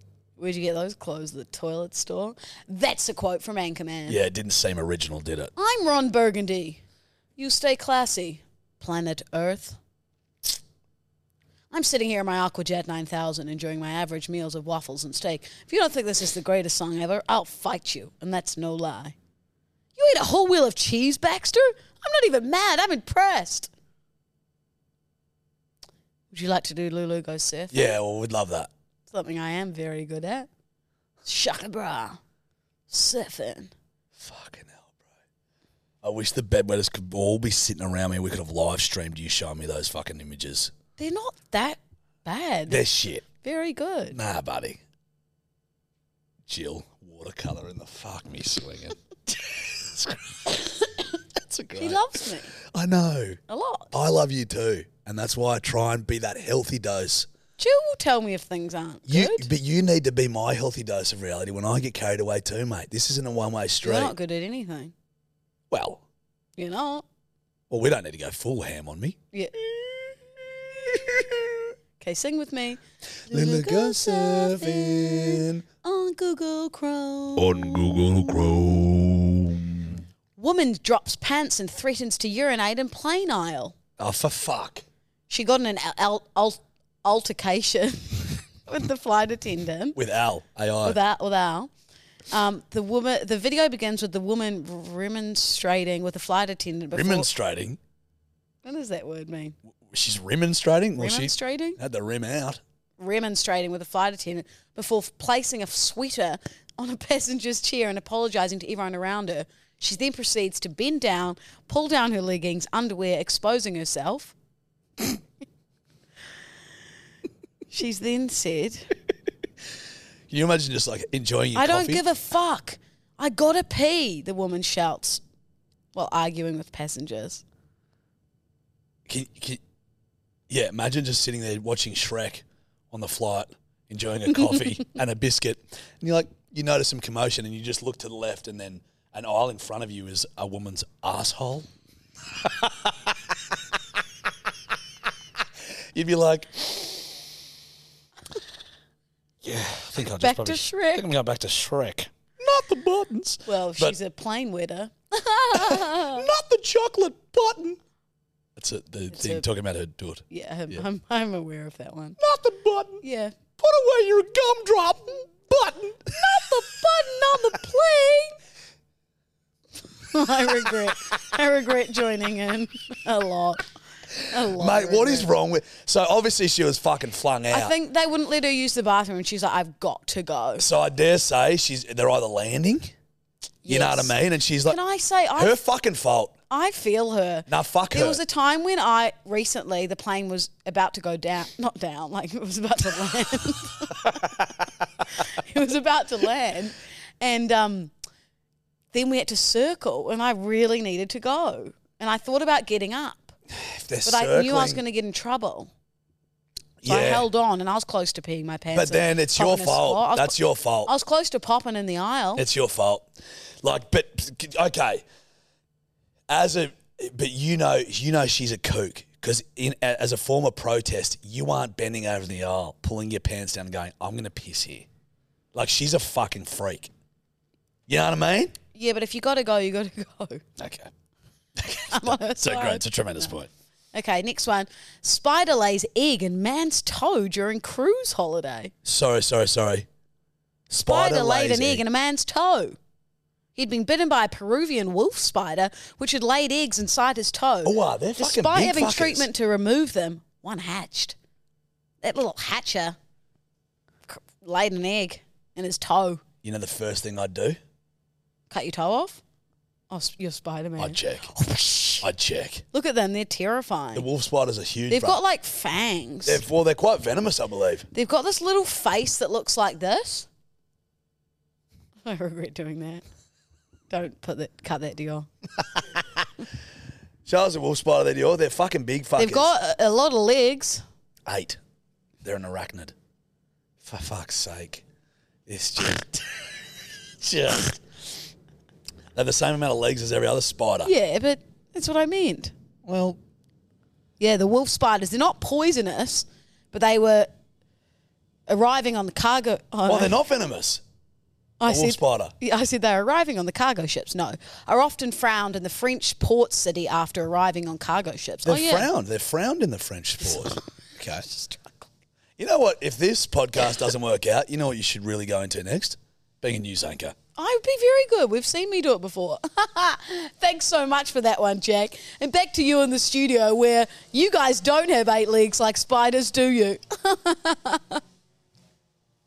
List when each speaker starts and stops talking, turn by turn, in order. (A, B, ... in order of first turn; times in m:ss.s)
0:00.4-0:04.2 A
0:04.1-0:05.5 B
0:05.6-0:06.8 A
0:07.4-0:09.8 A
0:11.7-0:19.2 A
0:20.0-0:23.7 A
0:26.3-0:28.0 A
0:27.7-0:28.7 B
0:29.1-0:30.5 A
0:31.2-0:32.2 A
0:32.9-0:33.7 A
0:34.2-0:34.9 B
0:36.0-0:40.7 B
0:41.0-0:42.8 A
0:42.7-0:43.2 B
0:43.4-0:44.2 A
0:44.1-0:44.8 B
0:46.5-0:53.4 B
0:51.8-0:52.5 A
0:53.5-0:53.9 A
0:53.9-0:57.3 B
0:57.6-0:59.5 A
0:59.1-1:04.1 B
1:03.8-1:04.9 A
1:05.7-1:06.0 B
1:06.6-1:07.0 A
1:07.7-1:09.2 B
1:10.9-1:11.6 B
1:12.0-1:18.0 A
1:13.3-1:15.6 B
1:17.4-1:20.0 B
1:20.4-1:23.8 A
1:24.0-1:24.8 B
1:25.3-1:30.0 A
1:30.0-1:31.0 B
1:30.8-1:31.7 A
1:32.3-1:37.3 A
1:36.9-1:37.8 B
1:38.6-1:39.6 A
1:39.9-1:42.6 B
1:41.0-1:41.8 A
1:43.0-1:54.4 A
1:57.7-1:58.9 A
2:00.3-2:02.0 B
2:01.6-2:05.2 A
2:05.9-2:07.4 A
2:09.1-2:09.6 B
2:10.5-2:21.7 B
2:22.5-2:22.9 B
2:26.0-2:27.3 B
2:29.4-2:34.0 B
2:30.2-2:31.1 A
2:33.5-2:36.2 A
2:35.6-2:37.8 B
2:38.6-2:40.8 B
2:39.1-2:39.4 A
2:40.3-2:42.2 A
2:42.2-2:43.0 B
2:43.0-2:43.4 A
2:43.6-2:46.6 B
2:46.1-2:48.4 A
2:50.1-2:53.6 A
2:54.3-2:55.3 A
2:54.4-2:57.7 B
2:57.5-3:00.6 A
3:00.6-3:02.9 B
3:03.6-3:04.1 A
3:03.6-3:04.8 B
3:04.6-3:05.6 A
3:05.4-3:06.3 B
3:06.5-3:14.3 A
3:07.5-3:08.2 B
3:15.2-3:17.9 A
3:18.9-3:23.4 A
3:23.6-3:24.8 B
3:24.0-3:25.7 A
3:26.8-3:27.3 B
3:26.9-3:32.4 A
3:28.7-3:30.9 B
3:32.4-3:33.1 B
3:33.6-3:35.0 B
3:36.3-3:44.9 B
3:45.5-3:46.9 B
3:47.9-3:48.5 B
3:48.8-3:50.4 A
3:50.6-3:50.9 B
3:51.6-3:53.5 B
3:51.9-3:53.3 A
3:53.9-3:58.7 A
3:58.8-3:59.9 B
4:00.7-4:01.8 B
4:00.9-4:02.8 A
4:03.6-4:11.2 A
4:07.6-4:09.3 B
4:12.0-4:13.0 A
4:14.1-4:16.2 A
4:16.4-4:17.6 B
4:18.5-4:19.2 A
4:19.9-4:22.1 A
4:20.8-4:21.3 B
4:22.0-4:22.6 B
4:22.7-4:24.1 A
4:24.0-4:25.2 B
4:24.9-4:26.4 A
4:26.2-4:27.9 B
4:27.9-4:30.3 A
4:32.0-4:33.0 A
4:33.9-4:35.3 A
4:37.2-4:39.5 B
4:39.2-4:40.8 A
4:41.3-4:41.6 B
4:42.2-4:42.9 B
4:43.8-4:44.8 B
4:45.5-4:46.6 B
4:47.2-4:47.8 B
4:49.1-4:50.9 B
4:50.8-4:52.5 A
4:52.8-4:53.2 B
4:54.2-4:57.3 A
4:58.5-5:00.2 A
4:59.9-5:00.8 B
5:01.6-5:08.9 A
5:01.6-5:02.3 B
5:08.4-5:11.2 B
5:11.2-5:11.9 A
5:12.4-5:17.2 B
5:17.4-5:28.0 A